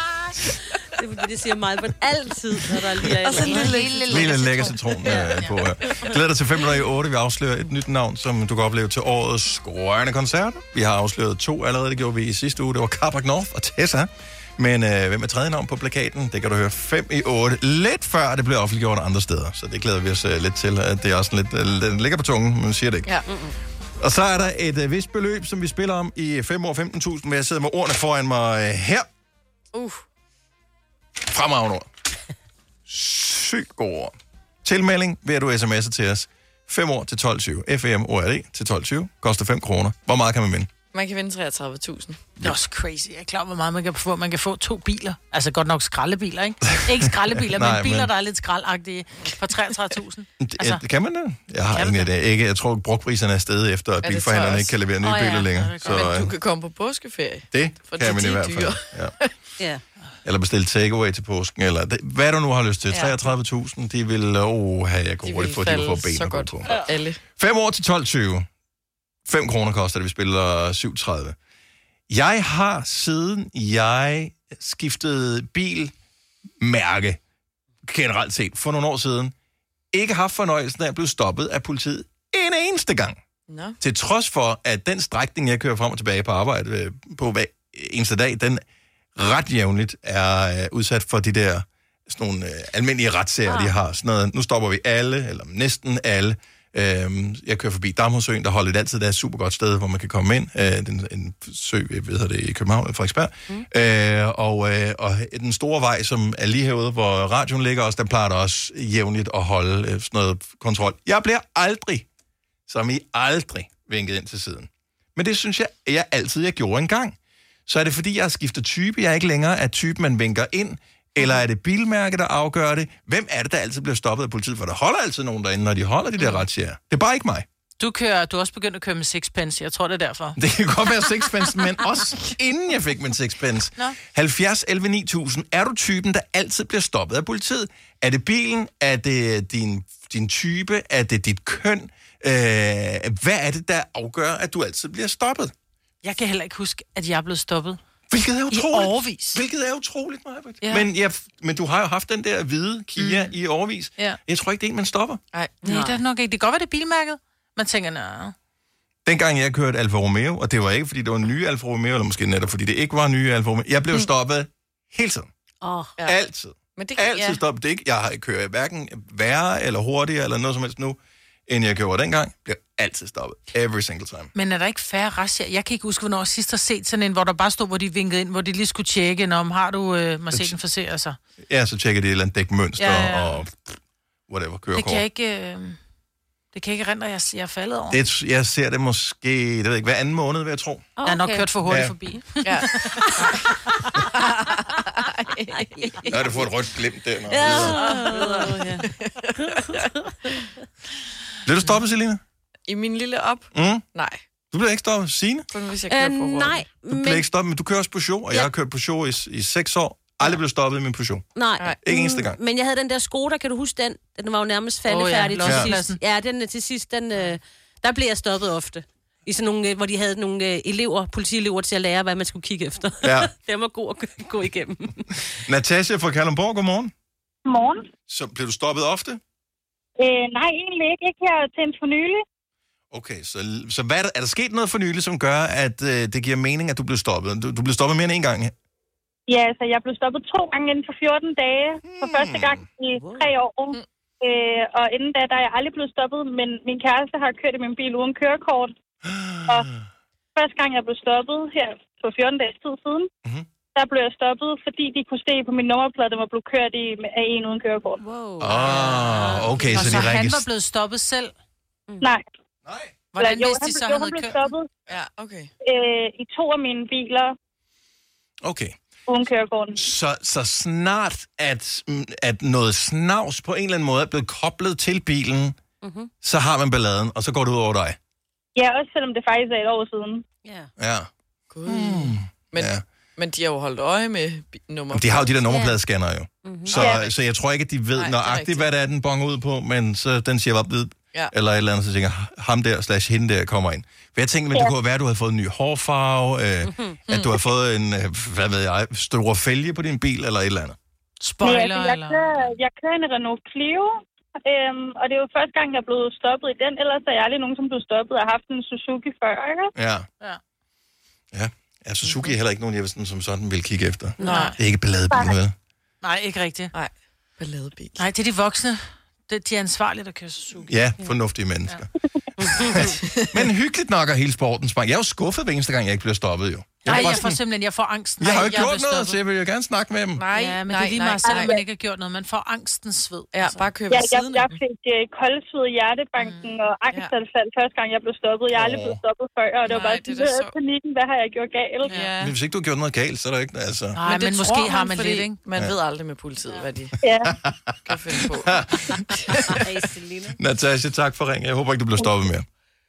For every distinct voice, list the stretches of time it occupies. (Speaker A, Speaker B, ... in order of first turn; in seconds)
Speaker A: 1.0-4.0, 55.0-55.4, 165.6-165.9, 191.0-191.5, 195.5-196.2, 197.3-200.1, 205.9-207.2, 211.3-225.1, 258.0-260.0, 275.8-276.1, 280.4-280.7, 285.5-285.8, 286.4-286.9, 296.7-297.0, 322.4-322.9, 349.5-350.4
Speaker B: 3.2-4.2, 29.7-30.0, 40.9-42.2, 54.0-54.8, 55.9-59.3, 62.9-63.2, 65.2-67.2, 83.5-83.8, 155.3-155.9, 166.8-167.4, 192.4-193.5, 194.1-196.1, 197.4-199.9, 202.7-204.2, 205.5-206.7, 264.9-265.5, 281.5-285.3, 288.0-288.7, 314.2-314.5, 316.7-318.1, 323.0-323.4, 326.9-327.2, 330.2-331.6, 333.3-334.6, 339.7-340.6, 341.9-342.4, 344.1-346.9, 347.9-349.6
Speaker C: 3.4-5.5, 42.4-50.8, 51.8-52.0, 55.5-56.1, 127.8-130.4, 146.0-147.8, 148.5-149.4, 155.6-158.3, 174.3-181.2, 182.8-183.4, 184.7-185.8, 186.5-188.0, 191.1-193.1, 214.9-216.0, 258.5-261.3, 263.1-264.4, 301.2-302.5, 314.2-314.6, 316.0-316.7, 318.0-320.7, 326.9-329.2, 330.3-333.6, 336.2-336.5, 344.0-345.4
Speaker D: 4.1-23.1, 24.0-29.1, 31.2-31.9, 32.9-40.7, 46.7-48.1, 50.4-56.3, 57.5-59.1, 60.2-66.8, 67.3-68.5, 69.3-71.4, 72.1-75.9, 76.6-77.2, 77.8-79.3, 79.9-83.2, 83.8-88.6, 89.2-112.1, 112.7-127.5, 130.4-145.5, 148.1-155.2, 159.1-165.3, 166.1-174.3, 181.5-183.8, 184.3-185.0, 187.9-190.9, 191.7-191.9, 196.1-197.8, 201.5-202.2, 203.5-203.8, 204.5-205.5, 206.9-211.3, 211.8-212.4, 215.4-215.7, 223.0-223.3, 225.5-226.9, 228.1-229.2, 232.9-238.5, 241.8-242.7, 249.0-249.9, 258.4-260.4, 262.7-262.9, 268.4-268.8, 269.8-275.6, 276.2-278.0, 280.8-281.1, 281.6-282.8, 284.9-300.8, 309.8-310.1, 311.3-315.6, 320.7-321.9, 322.6-327.4, 328.2-330.2, 338.5-339.0, 342.2-344.0, 347.2-347.8, 348.4-349.0, 350.4-352.5
Speaker E: 227.5-227.9, 230.0-232.2, 239.3-248.7, 250.4-253.1, 253.8-258.0, 263.2-264.7, 265.6-267.3, 269.1-269.8, 278.6-280.2, 301.4-309.7, 331.3-331.6, 333.9-341.9, 347.0-347.3